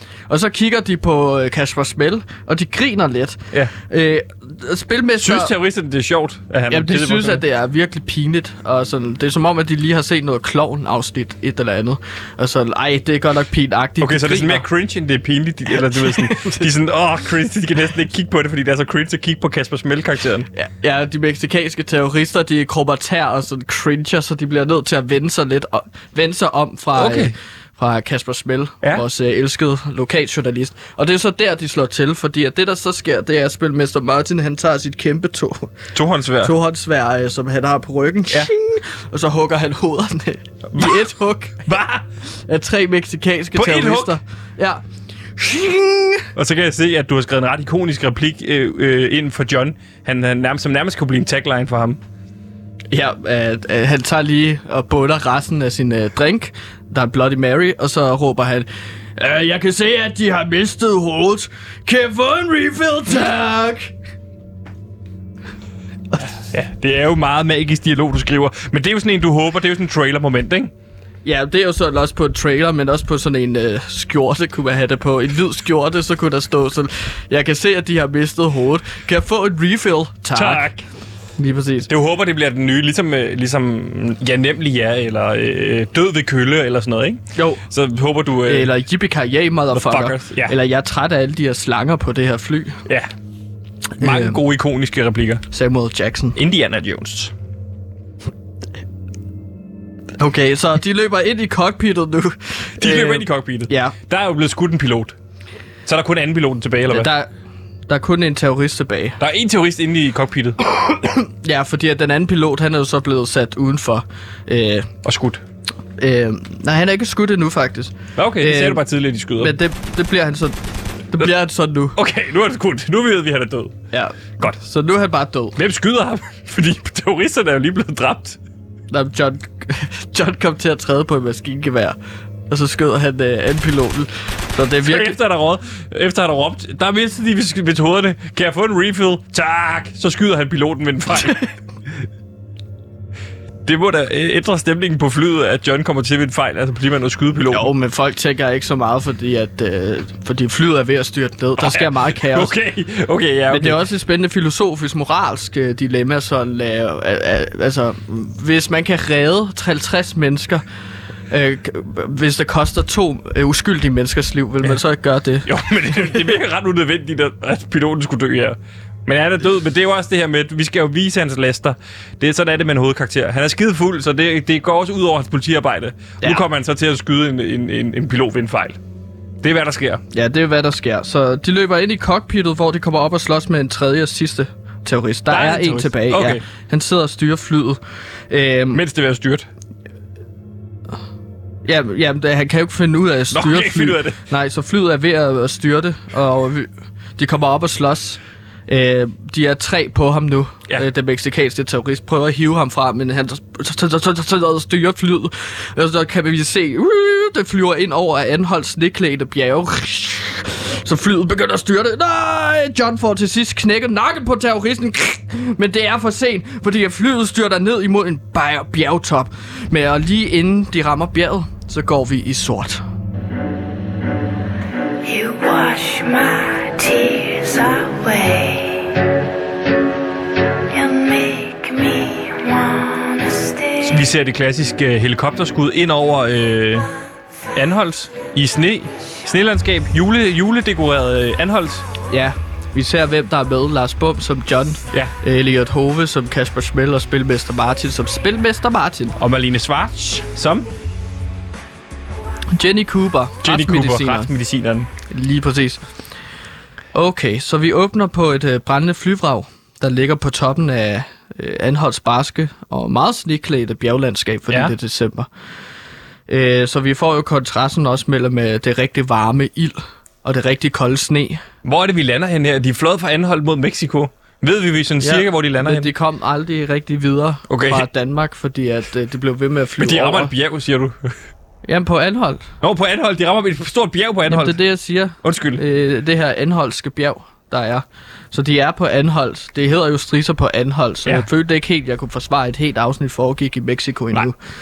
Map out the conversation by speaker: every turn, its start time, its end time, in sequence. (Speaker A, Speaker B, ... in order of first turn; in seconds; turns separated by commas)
Speaker A: 0.3-5.5, Speaker B: 5.2-7.4, Speaker A: 6.7-14.6, Speaker B: 14.0-20.5, Speaker A: 15.9-16.6, Speaker A: 20.5-35.7, Speaker B: 26.9-27.3, Speaker B: 35.9-36.5, Speaker A: 36.4-44.8, Speaker B: 40.7-41.1, Speaker B: 41.7-42.0, Speaker B: 43.5-44.2, Speaker A: 45.4-46.3, Speaker B: 46.4-52.0, Speaker A: 52.9-63.9, Speaker B: 66.3-70.7, Speaker A: 71.2-80.7, Speaker B: 80.3-80.8, Speaker A: 81.4-81.9, Speaker B: 81.9-88.7, Speaker A: 87.4-87.6, Speaker A: 88.5-92.8, Speaker B: 89.7-90.5, Speaker A: 94.0-94.4, Speaker B: 94.0-95.4, Speaker A: 95.5-96.4, Speaker B: 96.4-97.3, Speaker A: 100.2-103.9, Speaker B: 102.8-105.1, Speaker B: 105.9-107.1, Speaker A: 106.9-107.3, Speaker A: 107.9-109.2, Speaker B: 109.2-111.0, Speaker A: 111.1-114.9, Speaker B: 115.0-115.4, Speaker A: 116.0-118.8, Speaker B: 118.2-119.5, Speaker A: 119.4-120.6, Speaker A: 121.1-122.0, Speaker B: 122.0-123.7, Speaker A: 123.9-125.6, Speaker B: 125.6-128.4, Speaker A: 128.9-132.0, Speaker A: 132.5-135.1, Speaker B: 134.8-141.5, Speaker B: 143.7-147.7, Speaker A: 147.5-152.5, Speaker B: 151.6-153.8, Speaker A: 153.5-160.6, Speaker A: 161.3-166.4, Speaker B: 165.5-178.8, Speaker B: 179.4-180.0, Speaker A: 180.1-188.8, Speaker B: 185.3-186.4, Speaker B: 188.7-189.5, Speaker A: 191.6-222.8, Speaker B: 193.3-194.2, Speaker C: 225.0-228.9, Speaker C: 230.7-234.1, Speaker B: 233.8-236.9, Speaker B: 237.6-241.8, Speaker A: 242.1-249.2, Speaker B: 249.2-250.7, Speaker A: 252.5-254.3, Speaker B: 253.4-254.9, Speaker A: 255.1-255.8, Speaker A: 256.9-265.3, Speaker A: 266.3-271.4, Speaker B: 271.6-275.9, Speaker A: 275.0-280.3, Speaker B: 277.5-277.9, Speaker B: 279.8-281.2, Speaker A: 281.6-282.4, Speaker B: 282.6-284.6, Speaker A: 284.3-294.4, Speaker B: 285.2-285.6